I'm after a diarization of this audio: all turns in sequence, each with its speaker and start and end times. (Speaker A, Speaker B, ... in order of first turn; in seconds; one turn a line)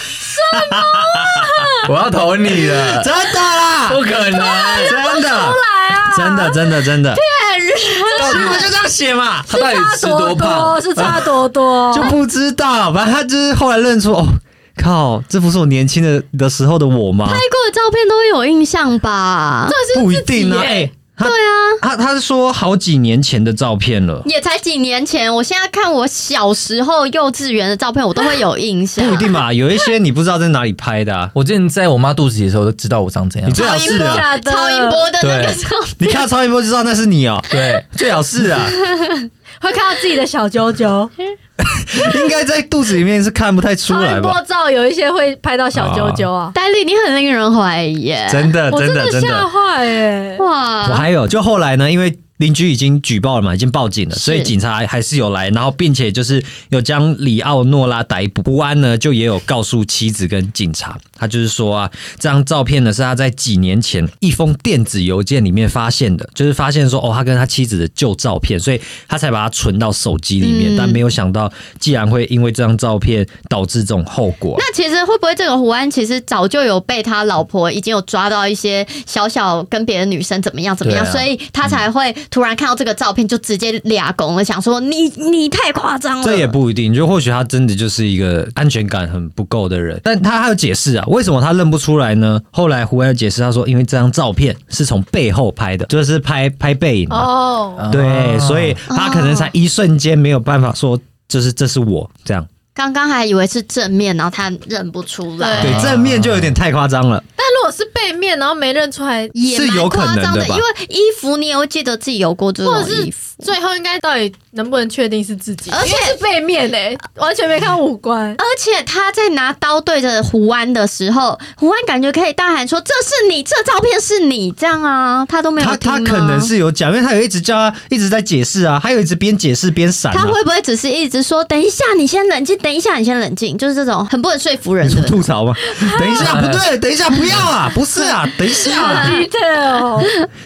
Speaker A: 0.2-1.8
Speaker B: 0.5-1.5
Speaker C: 1.8-3.1
Speaker B: 2.6-4.0
Speaker C: 3.8-5.0
Speaker A: 4.3-8.7
Speaker B: 4.7-7.2
Speaker D: 8.2-8.6
Speaker B: 8.2-9.5
Speaker C: 9.5-11.2
Speaker A: 9.5-12.2
Speaker B: 11.9-17.4
Speaker D: 17.2-19.8
Speaker A: 19.7-20.9
Speaker B: 19.9-24.3
Speaker D: 21.2-21.8
Speaker D: 24.2-29.4
Speaker B: 29.0-31.3
Speaker C: 31.3-33.7
Speaker B: 33.4-34.3
Speaker D: 33.5-36.2
Speaker A: 33.7-35.1
Speaker C: 35.2-35.6
Speaker B: 36.0-38.8
Speaker C: 37.5-37.9
Speaker D: 38.7-39.2
Speaker A: 39.6-41.1
Speaker B: 41.6-44.4
Speaker A: 43.9-46.5
Speaker B: 45.7-46.2
Speaker D: 46.5-48.5
Speaker B: 48.3-49.5
Speaker A: 48.7-50.4
Speaker D: 50.4-51.0
Speaker B: 50.8-74.6
Speaker D: 54.1-54.5
Speaker D: 70.4-71.0
Speaker D: 74.5-86.5
Speaker C: 80.8-81.8
Speaker B: 86.2-97.3
Speaker A: 97.1-97.9
Speaker C: 97.8-98.8
Speaker B: 97.9-102.5
Speaker D: 98.9-99.5
Speaker D: 102.7-105.8
Speaker A: 105.4-105.8
Speaker B: 105.6-107.2
Speaker C: 105.6-106.5
Speaker A: 107.4-109.3
Speaker D: 109.3-113.5
Speaker B: 109.5-110.6
Speaker A: 112.6-118.4
Speaker D: 115.7-116.2
Speaker D: 118.4-126.5
Speaker B: 125.6-130.4
Speaker D: 130.1-135.2
Speaker B: 134.8-139.1
Speaker A: 135.7-136.1
Speaker C: 136.2-136.6
Speaker A: 138.6-140.1
Speaker D: 138.8-139.2